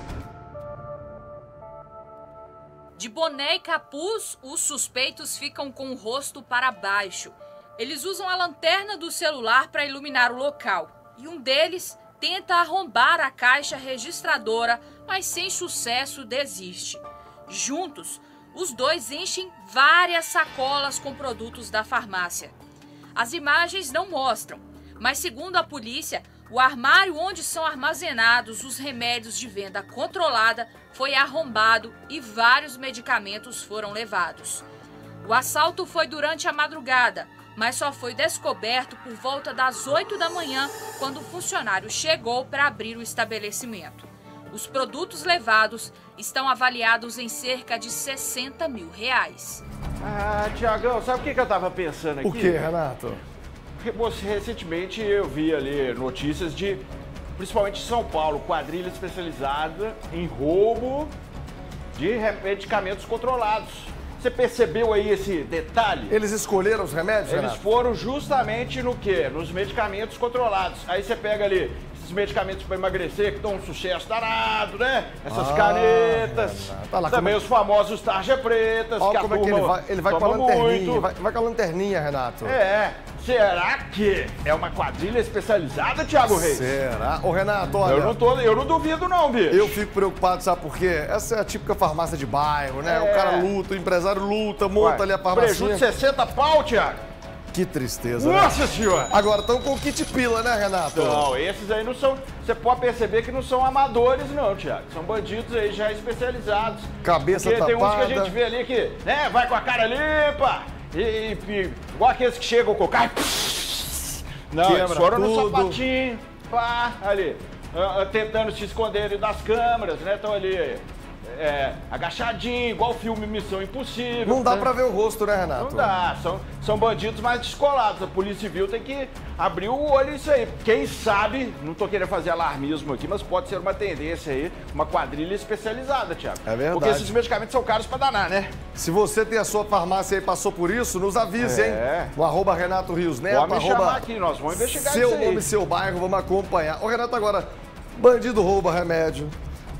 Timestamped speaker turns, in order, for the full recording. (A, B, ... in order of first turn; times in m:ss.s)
0:03.0-0:22.6 A
0:23.2-0:34.6 A
0:35.2-0:49.6 A
0:50.0-0:52.6 B
0:52.2-0:53.2 C
0:53.8-0:56.8 B
0:57.4-1:01.1 B
1:01.9-1:06.2 B
1:06.1-1:07.6 C
1:07.3-1:21.1 B
1:15.3-1:17.4 C
1:19.0-1:22.6 C
1:22.4-1:26.8 B
1:26.3-1:28.2 C
1:27.8-1:29.8 B
1:29.5-1:35.9 C
1:32.8-1:33.5 B
1:34.8-1:37.0 B
1:37.5-1:41.3 C
1:38.2-1:39.1 B
1:40.9-2:04.7 B
1:47.0-1:48.4 C
1:54.6-1:55.8 C
2:04.2-2:06.0 C
2:05.6-2:18.6 B
2:16.4-2:17.2 C
2:18.8-2:29.3 C
2:21.4-2:22.1 B
2:23.3-2:25.5 B